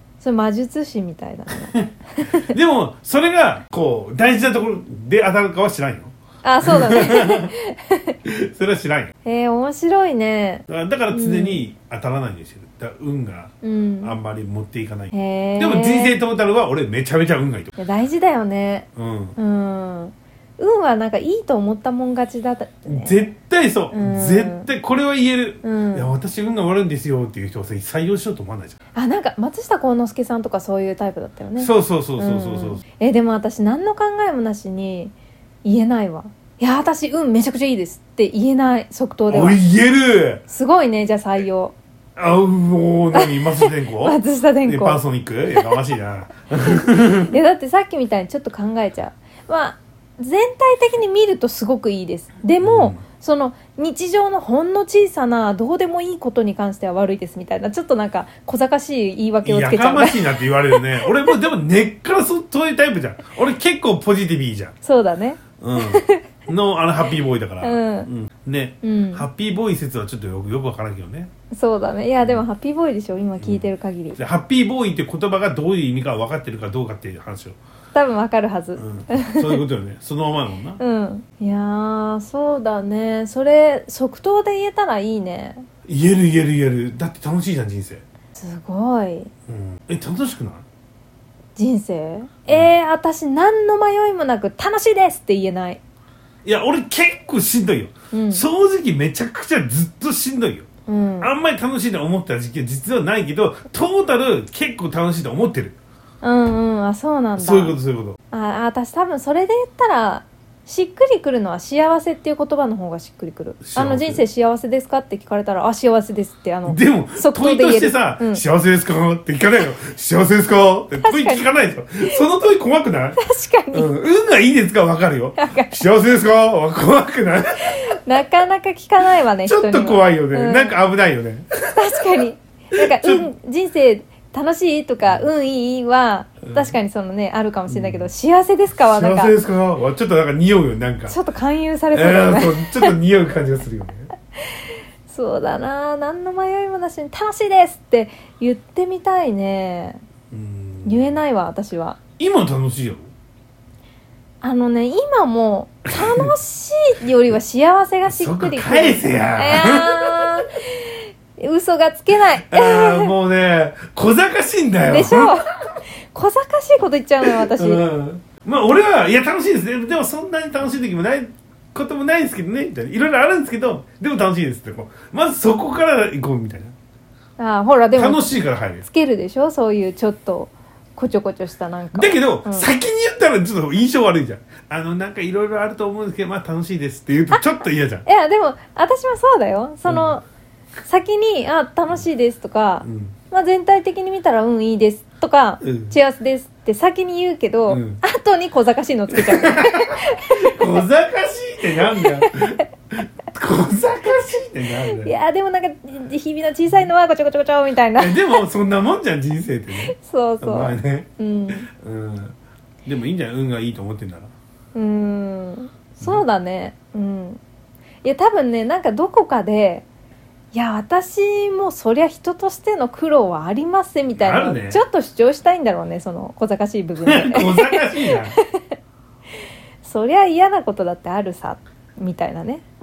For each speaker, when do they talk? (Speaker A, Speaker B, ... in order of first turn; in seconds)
Speaker A: 0.2-2.5, 6.4-8.2, 9.2-11.6, 13.6-14.2, 15.1-16.1, 17.8-23.2, 23.9-24.7, 25.6-26.1, 28.9-39.6, 40.5-41.7, 43.1-45.8, 47.0-61.4, 64.8-66.2, 67.6-68.1, 68.8-69.2, 71.5-74.2, 77.9-79.6, 80.8-85.7, 88.3-89.3, 91.5-95.8, 98.1-98.4, 100.9-101.3, 106.2-107.8, 108.3-118.4, 121.0-121.5, 123.2-123.9, 125.4-125.8, 127.6-130.8, 131.8-139.4, 141.1-142.9, 144.5-150.0, 150.8-152.0, 154.4-163.1, 164.8-165.5, 166.1-167.8, 177.4-182.7, 187.3-190.2, 190.8-200.3, 201.8-202.6, 204.9-208.4, 209.8-211.7, 214.7-217.4, 218.0-219.8, 220.5-228.7, 229.8-232.6
Speaker B: 1.8-6.1, 6.6-7.4, 8.2-9.1, 10.7-17.7, 18.9-19.4, 22.9-28.8, 31.6-32.8, 39.3-40.4, 42.1-47.3, 52.6-53.0, 59.4-64.7, 65.6-71.3, 73.4-77.6, 78.8-80.8, 85.9-88.0, 89.5-90.6, 96.4-100.7, 101.2-105.8, 107.3-108.2, 113.6-114.2, 116.7-123.2, 123.7-128.0, 129.4-132.2, 132.8-133.3, 136.5-136.7, 137.7-138.1, 138.8-141.2, 141.9-144.1, 150.3-151.2, 152.2-153.1, 155.9-156.3, 158.1-160.4, 162.3-165.4, 167.2-176.7, 177.9-178.8, 181.9-188.1, 189.9-190.2, 192.8-193.1, 195.6-195.9, 197.7-198.0, 199.1-205.1, 208.0-212.3, 212.8-214.3, 224.2-224.8, 227.0-228.4